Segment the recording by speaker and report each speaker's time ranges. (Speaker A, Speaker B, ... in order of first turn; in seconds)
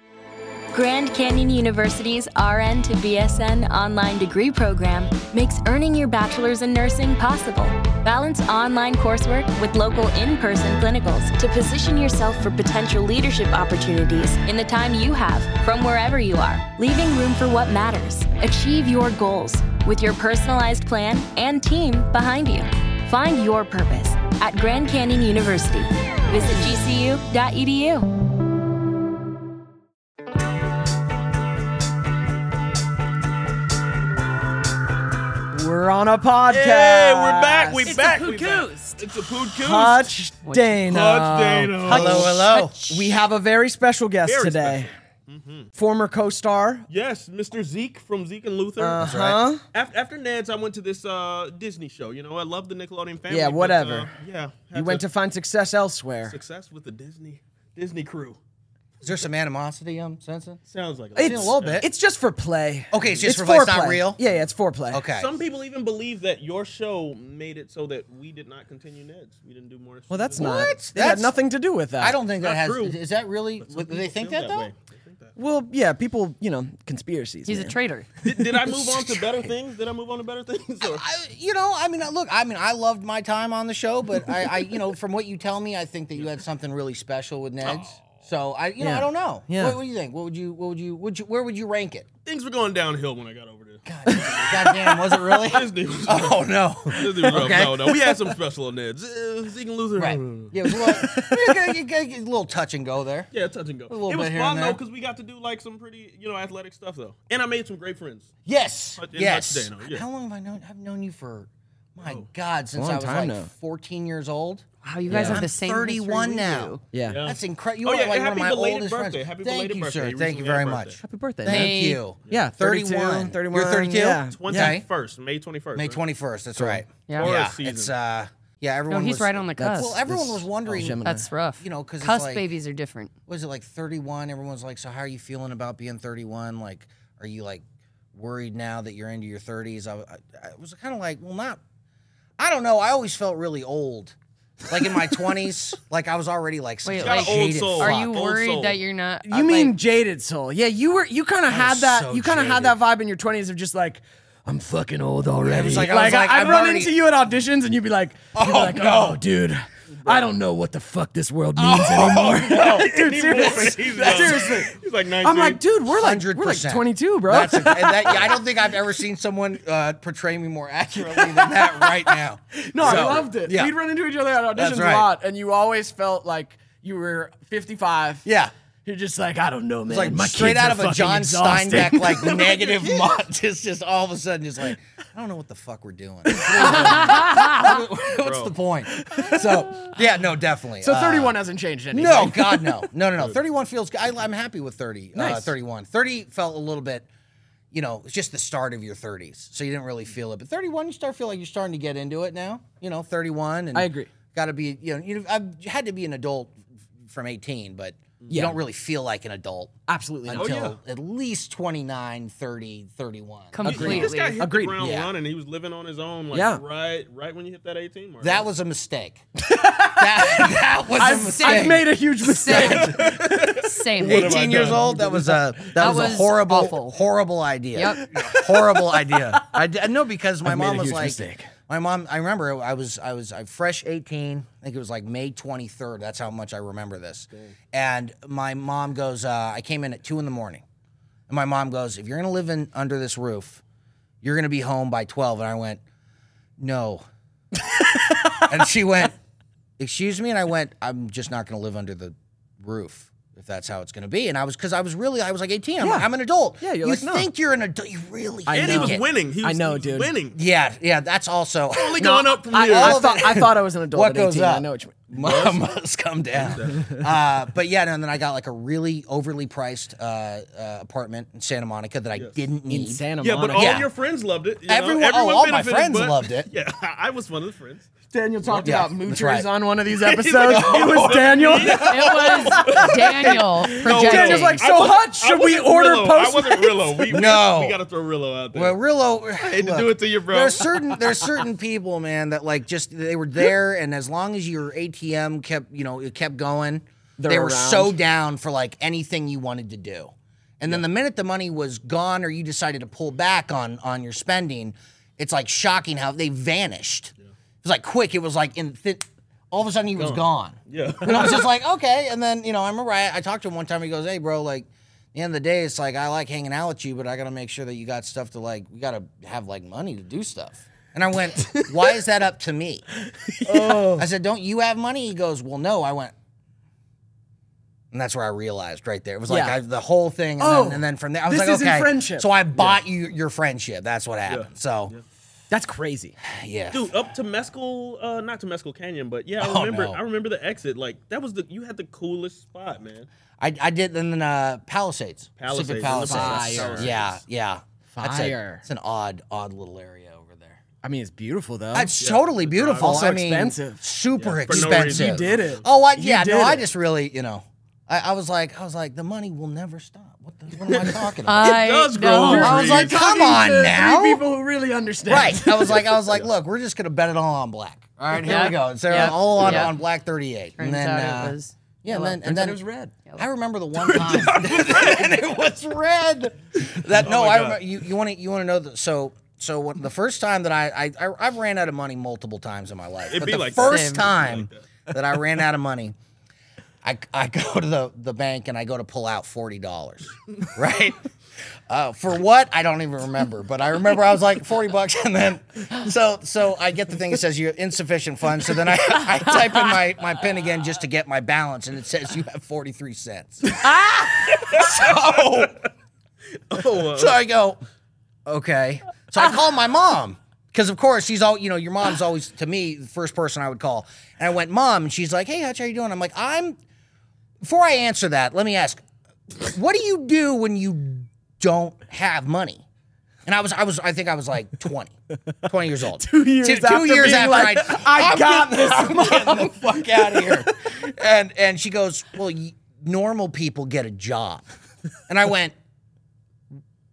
Speaker A: 0.7-28.1
Speaker B: 35.5-38.0, 39.5-44.9, 45.7-46.9, 48.8-49.6, 53.3-54.1, 54.7-56.4, 61.1-65.0, 70.1-72.2, 75.3-79.5, 88.8-89.8, 94.1-95.3, 100.6-101.7, 112.7-113.5, 115.1-115.5, 116.9-117.2, 121.0-124.8, 126.6-126.8, 129.6-131.3, 149.2-168.4, 171.1-178.2, 178.8-183.1, 186.3-187.8, 188.9-190.0, 190.8-192.8, 195.2-195.5, 203.7-204.1, 208.3-208.6, 209.9-210.7, 213.7-214.8, 216.3-216.6, 219.4-223.7, 224.6-226.2, 228.0-229.6, 230.4-231.5, 247.6-248.4, 255.8-256.1, 256.6-257.3, 258.5-260.1, 262.0-265.1, 272.7-273.8, 278.1-287.0, 297.2-298.0, 323.3-324.1, 329.3-329.6, 330.4-332.3, 335.5-336.1, 346.0-346.9, 347.9-348.6, 350.8-351.9, 352.8-353.8, 354.5-356.6, 362.2-365.9, 371.9-372.9, 425.9-430.7
Speaker C: 36.5-40.1, 40.9-42.3, 44.2-45.7, 46.9-49.0, 49.7-55.0, 56.3-58.4, 60.7-61.8, 63.0-63.3, 65.1-70.7, 72.4-73.0, 73.6-75.3, 78.2-81.0, 87.6-88.2, 92.2-94.9, 95.4-100.9, 103.3-108.3, 109.0-110.0, 117.0-121.0, 124.3-126.0, 127.2-127.9, 147.0-148.8, 160.0-160.3, 162.4-165.6, 172.8-173.2, 188.2-188.5, 210.3-210.7, 213.6-218.4, 222.6-224.9, 258.5-260.4, 261.7-263.3, 265.1-265.6, 266.3-266.9, 273.2-277.9, 279.9-288.8, 289.4-290.8, 310.0-311.5, 334.3-335.0, 336.7-343.1, 345.4-347.2, 352.0-353.0, 354.2-355.6, 360.7-362.9, 373.8-375.2, 376.8-377.6, 383.1-384.6, 404.1-405.6, 406.5-407.2
Speaker D: 37.9-39.0, 40.4-40.8, 42.5-42.9, 77.5-78.1, 114.8-116.8, 121.5-122.0, 128.9-130.0, 131.0-133.1, 146.8-149.7, 186.9-187.4, 213.5-214.4, 221.2-224.7, 225.8-227.0, 227.7-228.0, 281.9-284.6, 361.2-362.6, 368.1-369.7, 370.6-372.2, 383.6-384.1
Speaker E: 41.9-42.8, 49.0-49.5, 59.0-60.6, 61.2-61.9, 62.9-64.2, 64.9-65.3, 70.4-71.3, 72.0-74.7, 80.8-92.1, 93.8-98.3, 100.0-103.3, 103.9-104.8, 108.5-124.9, 125.7-131.0, 131.6-132.5, 133.3-137.6, 138.1-141.6, 142.4-144.1, 144.7-148.1, 151.5-152.8, 155.4-156.9, 158.3-159.2, 161.5-162.8, 165.9-173.7, 174.5-175.1, 178.2-178.5, 179.9-191.4, 191.9-197.1, 197.7-214.1, 214.8-215.1, 218.2-219.2, 219.8-221.9, 222.4-223.1, 224.0-240.6, 241.3-243.6, 244.2-245.8, 246.6-247.0, 248.3-249.2, 249.8-259.0, 260.3-273.9, 274.7-276.5, 278.6-279.5, 280.4-281.3, 287.1-287.8, 288.5-307.1, 307.6-322.9, 323.5-326.1, 327.9-334.9, 336.2-336.9, 339.4-340.0, 343.4-350.6, 351.7-361.5, 362.4-364.2, 365.1-372.6, 373.2-385.9, 386.8-391.0, 391.7-405.6, 406.8-407.6, 408.2-416.6, 417.4-422.6, 423.2-434.4, 435.1-435.5